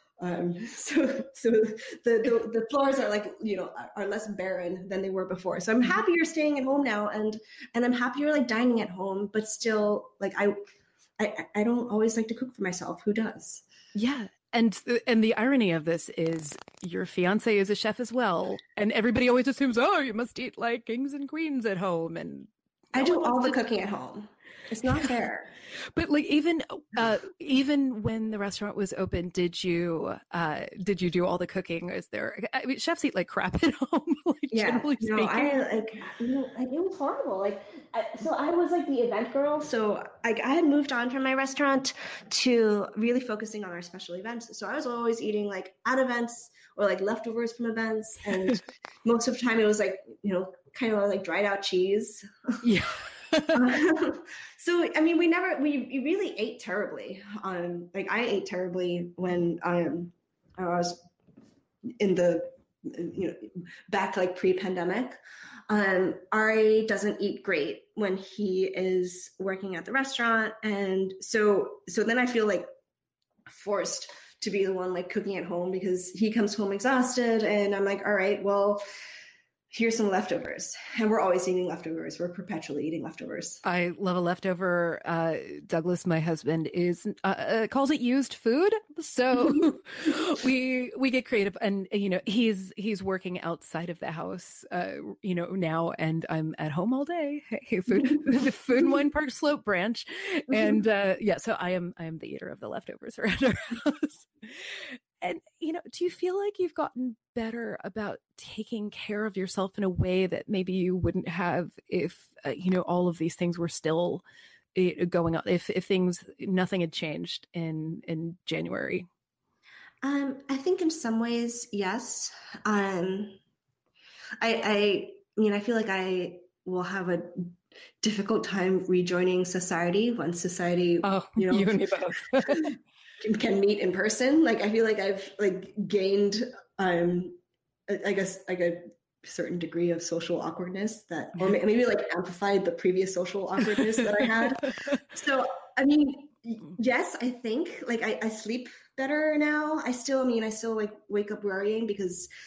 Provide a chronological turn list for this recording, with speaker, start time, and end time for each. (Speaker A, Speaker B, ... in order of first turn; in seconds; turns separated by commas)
Speaker A: 0.2-10.6, Speaker A: 11.2-13.6, Speaker B: 13.9-23.6, Speaker A: 22.9-25.5, Speaker B: 25.9-35.6, Speaker A: 34.5-52.6, Speaker B: 52.6-53.6, Speaker A: 53.5-61.0, Speaker A: 61.9-65.2, Speaker A: 65.7-72.7, Speaker A: 73.5-78.8, Speaker A: 79.7-83.6, Speaker B: 83.6-114.2, Speaker B: 114.7-119.0, Speaker A: 120.0-123.4, Speaker A: 124.4-152.3, Speaker B: 131.0-132.8